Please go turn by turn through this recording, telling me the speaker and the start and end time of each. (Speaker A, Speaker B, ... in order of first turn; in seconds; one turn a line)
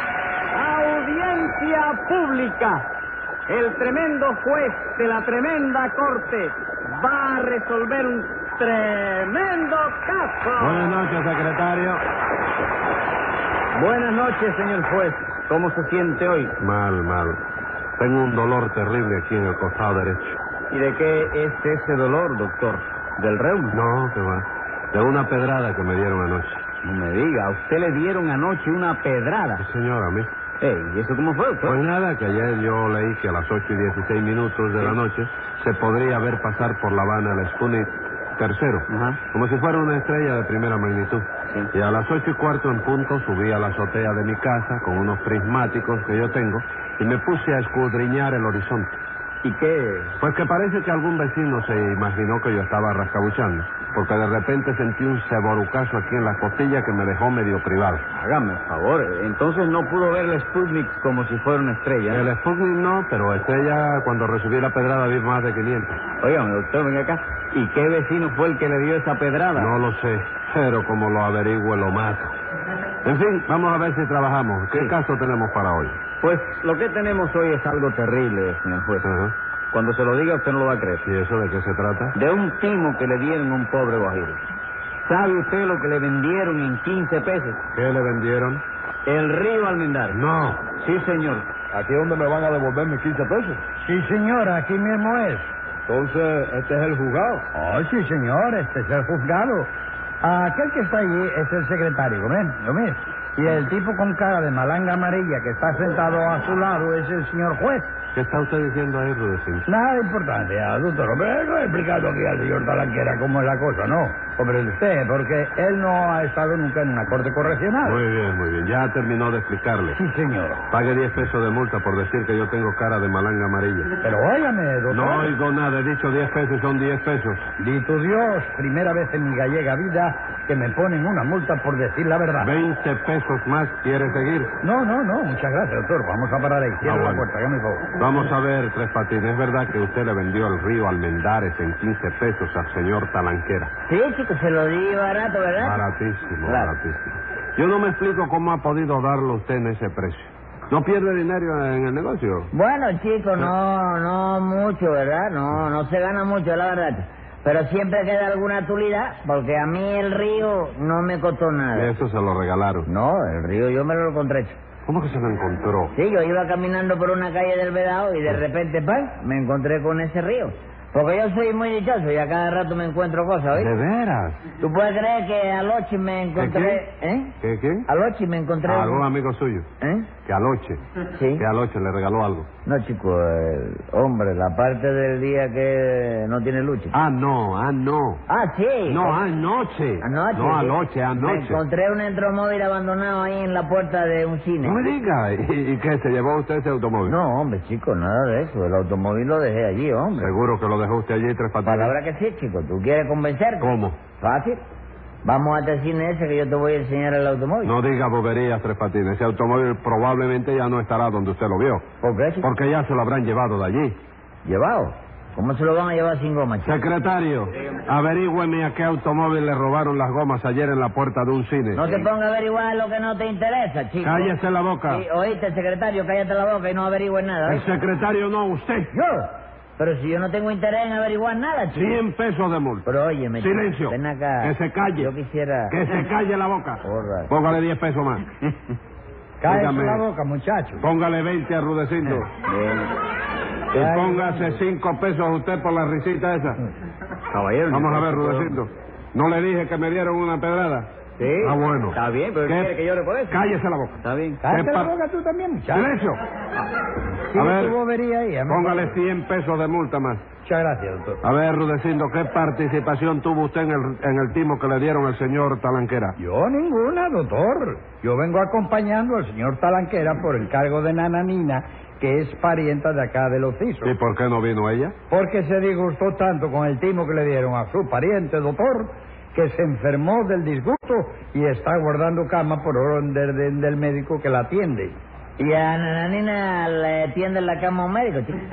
Speaker A: 0.5-2.9
Speaker A: 3.5-11.0
Speaker B: 10.6-12.0
Speaker A: 13.8-16.6
Speaker B: 16.6-17.4
Speaker B: 18.0-20.4
Speaker A: 20.7-23.8
Speaker B: 23.7-26.6
Speaker A: 26.8-29.6
Speaker B: 29.6-30.3
Speaker A: 30.6-31.8
Speaker B: 31.6-49.0
Speaker A: 38.9-39.2
Speaker A: 49.4-50.2
Speaker B: 50.2-58.0
Speaker A: 58.1-62.3
Speaker B: 62.1-66.0
Speaker A: 66.2-69.8
Speaker B: 69.5-72.3
Speaker B: 73.0-76.0
Speaker A: 76.2-79.1
Speaker B: 79.0-79.3
Speaker A: 79.7-81.0
Speaker B: 81.0-82.2
Speaker A: 82.1-84.4
Speaker A: 85.1-87.6
Speaker B: 87.7-88.6
Speaker A: 89.1-90.2
Speaker B: 90.1-90.7
Speaker A: 90.7-91.5
Speaker C: 91.7-93.6
Speaker D: 93.8-95.5
Speaker C: 95.9-97.5
Speaker D: 97.5-99.7
Speaker D: 100.2-107.9
Speaker B: 108.2-109.7
Speaker D: 109.7-118.0
Speaker B: 117.8-120.0
Speaker D: 119.9-120.6
Speaker B: 120.7-123.9
Speaker D: 124.0-125.3
Speaker B: 124.9-127.5
Speaker D: 127.6-132.5
Speaker B: 132.4-134.5
Speaker D: 134.6-137.9
Speaker B: 136.8-137.2
Speaker B: 138.0-143.7
Speaker E: 143.9-145.8
Speaker B: 145.6-152.5
Speaker E: 146.5-146.7
Speaker E: 152.5-161.9
Speaker B: 161.7-162.9
Speaker E: 162.9-164.6
Speaker B: 164.9-165.9
Speaker E: 165.9-173.7
Speaker B: 173.5-174.4
Speaker E: 174.6-177.3
Speaker B: 176.4-176.8
Speaker B: 177.4-177.9
Speaker E: 177.9-179.1
Speaker B: 178.7-179.7
Speaker E: 179.8-180.1
Speaker B: 180.3-180.8
Speaker E: 181.1-181.4
Speaker B: 181.4-182.5
Speaker E: 182.7-186.9
Speaker B: 186.9-188.2
Speaker E: 188.3-189.2
Speaker B: 188.9-191.6
Speaker E: 190.0-194.9
Speaker B: 194.6-197.2
Speaker E: 197.1-200.3
Speaker B: 200.2-201.9
Speaker E: 201.7-204.6
Speaker B: 203.6-204.0
Speaker E: 205.2-207.8
Speaker B: 207.6-211.8
Speaker E: 212.0-212.5
Speaker B: 212.4-214.0
Speaker E: 214.4-216.8
Speaker B: 216.6-222.1
Speaker E: 221.7-224.3
Speaker B: 224.0-225.0
Speaker E: 224.9-227.7
Speaker B: 227.5-228.9
Speaker E: 228.9-232.0
Speaker B: 231.7-232.9
Speaker E: 232.8-235.8
Speaker B: 233.4-235.1
Speaker B: 235.7-238.3
Speaker E: 236.8-237.3
Speaker D: 239.4-240.9
Speaker B: 239.4-240.0
Speaker B: 240.8-242.3
Speaker A: 242.5-242.9
Speaker B: 243.7-246.6
Speaker D: 243.7-244.6
Speaker A: 247.3-248.6
Speaker B: 247.7-250.9
Speaker A: 251.2-254.4
Speaker B: 251.4-252.8
Speaker B: 253.3-254.9
Speaker D: 254.4-256.0
Speaker B: 255.7-256.2
Speaker D: 257.3-259.0
Speaker B: 257.3-257.8
Speaker B: 258.5-260.2
Speaker D: 260.4-261.2
Speaker B: 261.2-266.2
Speaker D: 266.2-274.0
Speaker B: 273.8-274.9
Speaker D: 275.1-285.0
Speaker E: 285.4-288.4